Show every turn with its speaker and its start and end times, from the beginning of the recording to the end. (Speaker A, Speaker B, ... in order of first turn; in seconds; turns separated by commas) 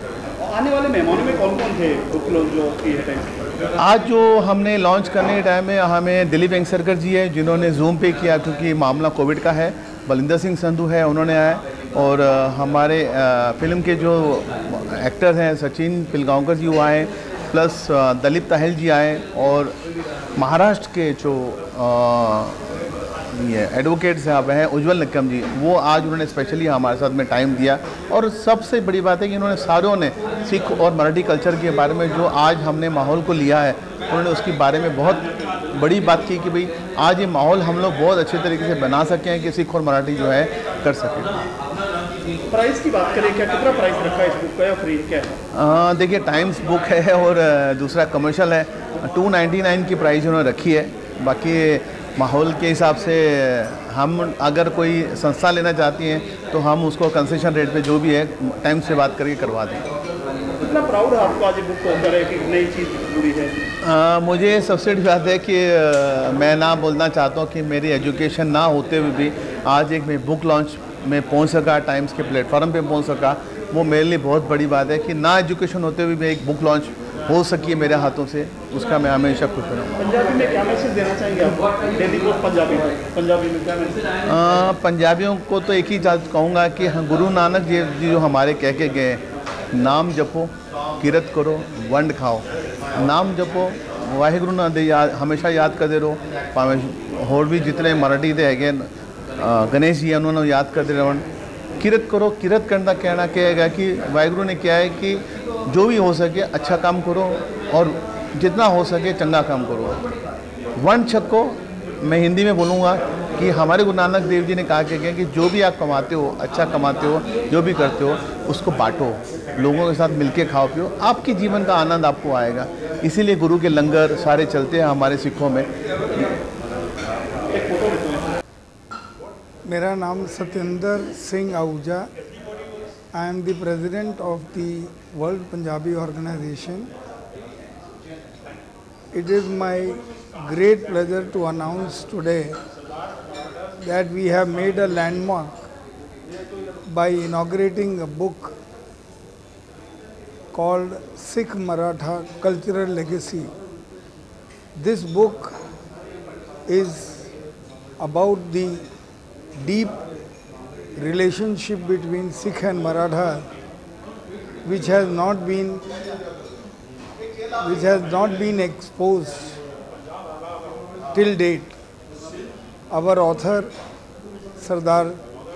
Speaker A: 0.4-3.5, Speaker B: 3.8-19.8, Speaker B: 20.4-22.6, Speaker B: 23.3-41.4, Speaker A: 42.5-45.4, Speaker B: 45.5-59.9, Speaker A: 60.6-63.6, Speaker B: 63.8-79.9, Speaker A: 80.0-84.1, Speaker B: 84.2-101.3, Speaker B: 101.8-110.0, Speaker B: 110.8-126.3, Speaker A: 127.5-128.3, Speaker C: 129.7-132.1, Speaker C: 133.1-136.9, Speaker C: 139.1-142.6, Speaker C: 143.8-145.7, Speaker C: 146.9-148.6, Speaker C: 150.5-153.5, Speaker C: 154.8-155.6, Speaker C: 156.7-157.3, Speaker C: 158.0-158.9, Speaker C: 159.6-160.0, Speaker C: 161.0-163.5, Speaker C: 164.6-165.8, Speaker C: 167.6-169.6, Speaker C: 171.1-171.8, Speaker C: 172.9-173.7, Speaker C: 174.6-175.2